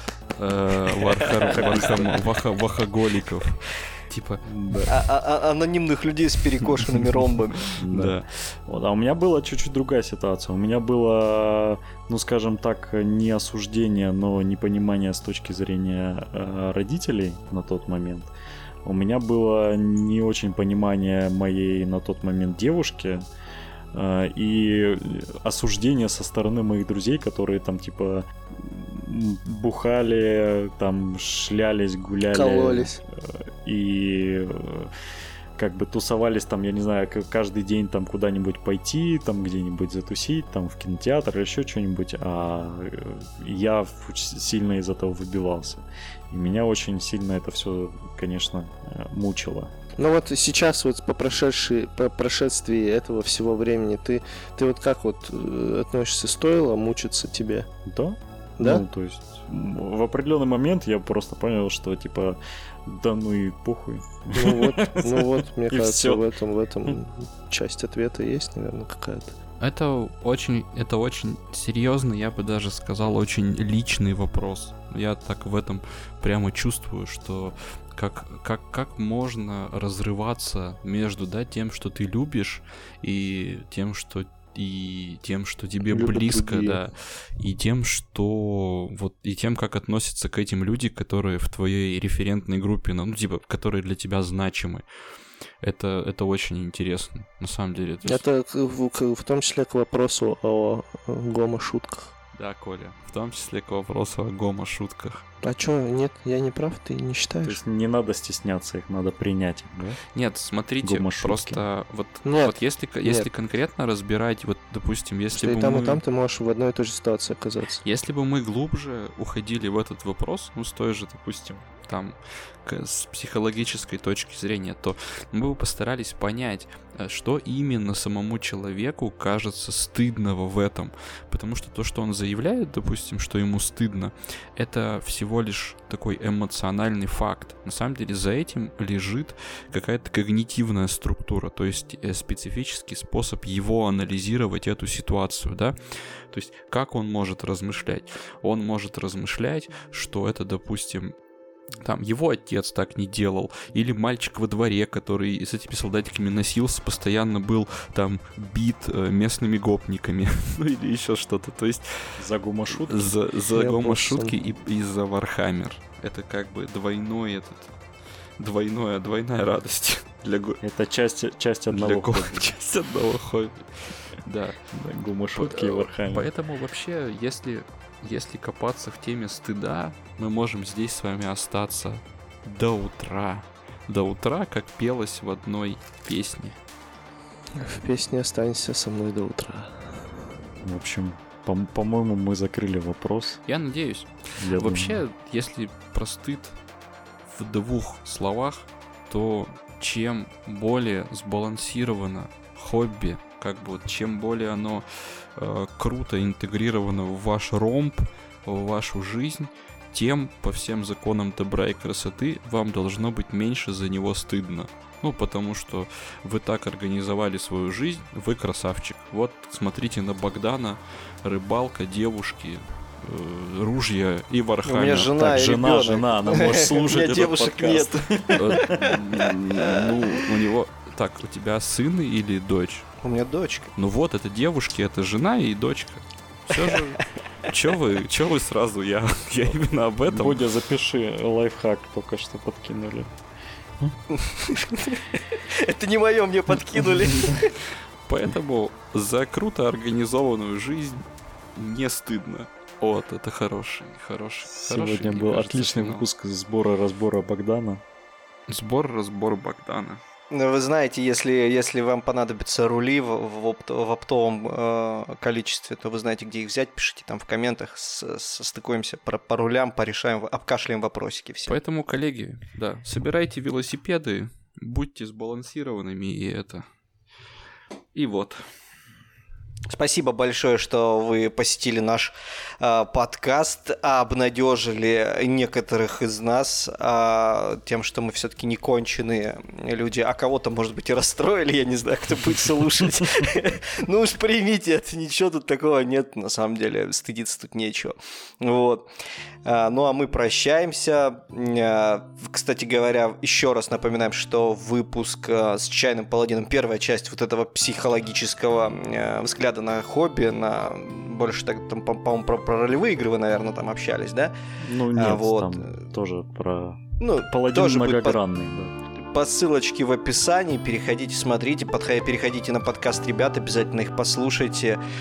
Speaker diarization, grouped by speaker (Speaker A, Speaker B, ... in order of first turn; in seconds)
Speaker A: 0.4-4.5, 7.9-8.3, 69.6-94.8, 95.6-98.2, 102.3-105.2, 110.2-116.0, 117.8-145.8, 146.3-151.1, 151.8-167.7, 168.4-170.6, 171.7-174.6, 175.4-186.6, 193.5-196.6, 197.3-204.8, 205.4-225.1, 228.3-232.9, 233.8-240.4, 248.1-256.1, 258.5-260.0, 271.5-276.7, 277.9-278.5
Speaker B: 1.1-2.0, 4.9-7.7, 224.7-230.2, 233.0-233.7, 236.5-236.8, 244.1-247.6, 260.3-271.5, 279.7-298.9, 299.4-314.4, 314.9-315.8, 317.0-318.2, 319.0-324.8
Speaker C: 1.5-2.2, 4.4-5.0, 7.8-18.3, 18.9-23.2, 23.9-34.9, 35.6-49.7, 57.9-66.2, 107.4-110.0, 110.8-111.6, 162.2-163.1, 170.6-172.5, 174.7-176.3, 190.6-193.4, 194.4-195.0, 225.2-228.9, 240.1-243.1, 254.5-257.8, 314.6-318.7
Speaker D: 32.3-33.0, 50.0-57.7, 58.6-58.9, 64.3-69.3, 85.9-86.8, 98.0-102.1, 105.4-107.6, 112.2-113.3, 115.3-117.8, 163.5-164.4, 187.6-190.2